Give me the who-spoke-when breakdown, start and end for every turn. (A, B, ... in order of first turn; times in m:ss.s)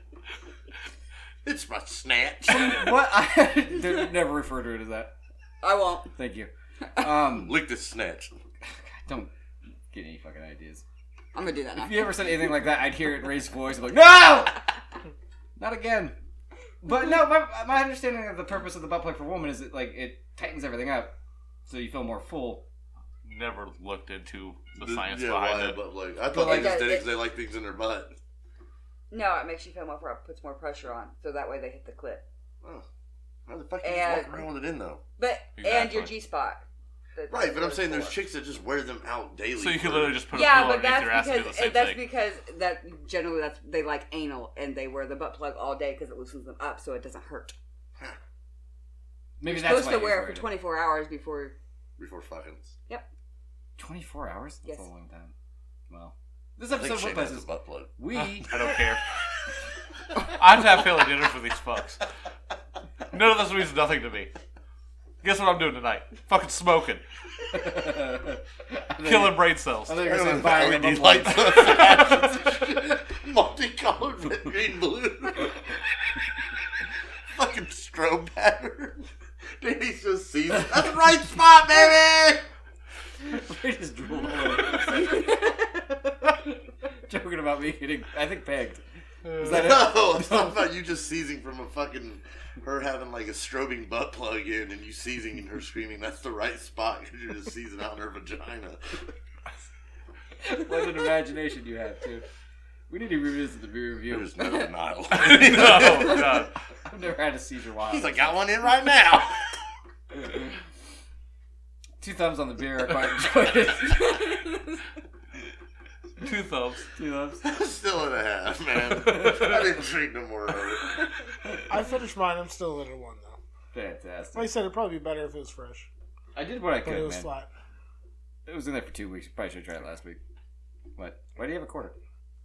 0:01.4-0:02.9 A
0:02.4-0:05.1 B
0:05.6-0:06.1 C
0:06.1-0:07.6 B
0:07.3-0:08.3 A
0:08.6-0:09.3 B
0:09.9-0:10.8 B
0:11.3-0:12.3 C
0:11.8-0:14.6 B
0:15.6-0:16.2 B
0:16.8-0:21.1 B
0:21.7-0:22.6 B
0:23.2-0:25.8 D
0:24.8-0:28.1 A
0:26.3-0:27.2 C
0:26.4-0:26.7 B
0:29.1-0:32.2 C
0:33.5-0:35.0 A
0:33.8-0:34.5 C
0:35.2-0:36.6 C
0:35.6-0:36.1 D
0:37.1-0:38.2 C
0:37.3-0:40.2 A
0:39.6-0:42.0 D
0:40.3-0:47.6 C
0:49.4-0:50.5 B
0:49.4-0:51.5 C
0:52.0-0:52.7 A
0:53.8-0:55.3 B
0:55.9-0:58.6 B
0:56.7-0:57.9 A
0:58.1-0:59.0 D
1:00.2-1:02.0 D
1:03.1-1:04.3 D
1:05.2-1:07.0 D
1:07.5-1:12.4 B
1:09.0-1:10.1 D
1:10.0-1:15.6 A
1:17.3-1:19.0 A
1:19.6-1:22.4 A
1:23.2-1:25.5 B
1:24.9-1:25.5 C
1:27.0-1:30.7 B
1:29.2-1:29.8 D
1:29.4-1:39.0 A
1:40.4-1:42.2 B
1:42.9-1:44.3 B
1:44.1-1:46.3 A
1:45.1-1:46.5 D
1:46.9-1:48.4 B
1:47.9-1:49.4 A
1:52.0-1:54.2 B
1:53.8-1:54.7 C
1:56.2-1:56.8 D
1:57.0-1:57.4 B
1:57.4-2:01.0 A
1:58.9-1:59.6 B
2:01.7-2:03.4 E
2:03.7-2:04.5 B
2:04.3-2:05.9 E
2:06.4-2:07.3 B
2:06.8-2:07.5 E
2:08.4-2:10.2 B
2:11.0-2:12.0 B